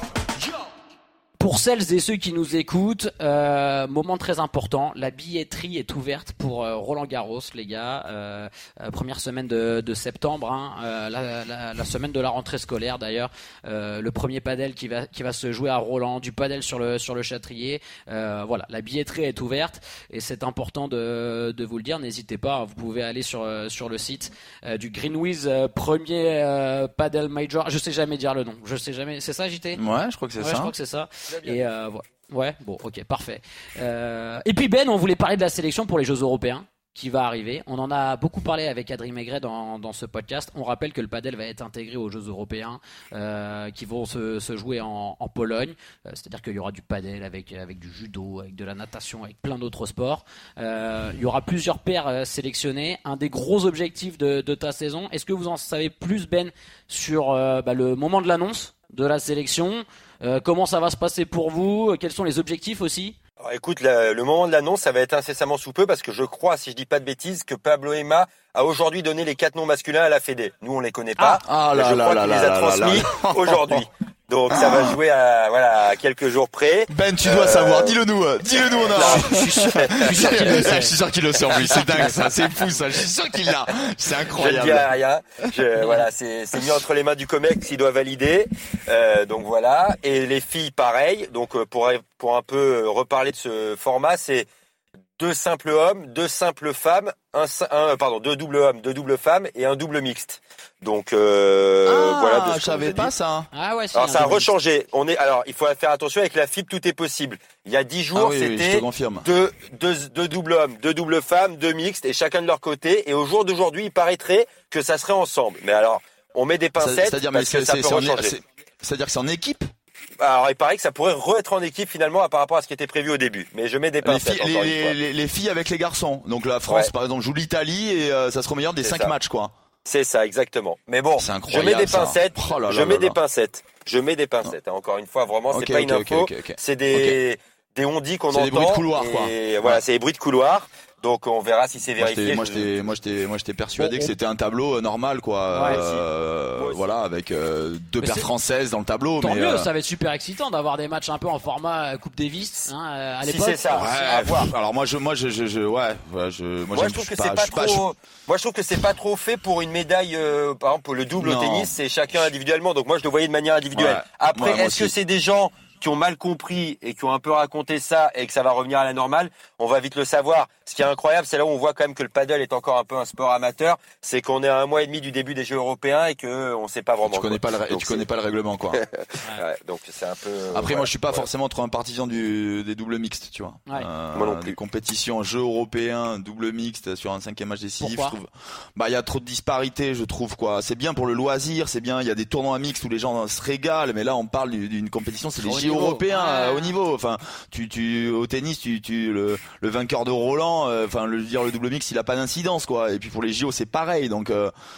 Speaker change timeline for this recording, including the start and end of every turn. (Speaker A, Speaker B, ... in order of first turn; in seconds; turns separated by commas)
Speaker A: 1.4-29.8, Speaker B: 29.8-30.7, Speaker A: 30.4-63.2, Speaker C: 63.4-78.0, Speaker B: 71.3-73.8, Speaker B: 74.5-75.0, Speaker B: 76.9-84.9, Speaker C: 78.8-80.7, Speaker A: 79.0-81.0, Speaker C: 81.7-82.1, Speaker C: 84.3-94.5, Speaker C: 95.2-103.1, Speaker B: 101.9-103.5, Speaker A: 103.5-104.5, Speaker C: 103.9-118.3, Speaker B: 108.1-109.3, Speaker B: 116.8-119.7, Speaker C: 120.2-125.0, Speaker B: 124.0-129.5, Speaker C: 128.8-129.1, Speaker C: 129.8-142.7, Speaker B: 131.2-133.2, Speaker B: 135.5-137.2, Speaker B: 138.3-139.8, Speaker B: 142.0-149.7, Speaker A: 143.8-144.1, Speaker A: 145.5-145.8, Speaker C: 145.6-146.0, Speaker C: 146.6-146.9, Speaker A: 148.0-148.3, Speaker A: 149.2-153.8, Speaker C: 153.2-154.5, Speaker B: 153.7-157.8, Speaker C: 156.8-178.0, Speaker B: 161.2-161.7, Speaker B: 163.7-164.9, Speaker B: 177.0-178.8, Speaker C: 178.8-181.3, Speaker B: 180.5-204.5, Speaker C: 184.1-184.6, Speaker A: 187.8-188.2, Speaker A: 195.4-196.7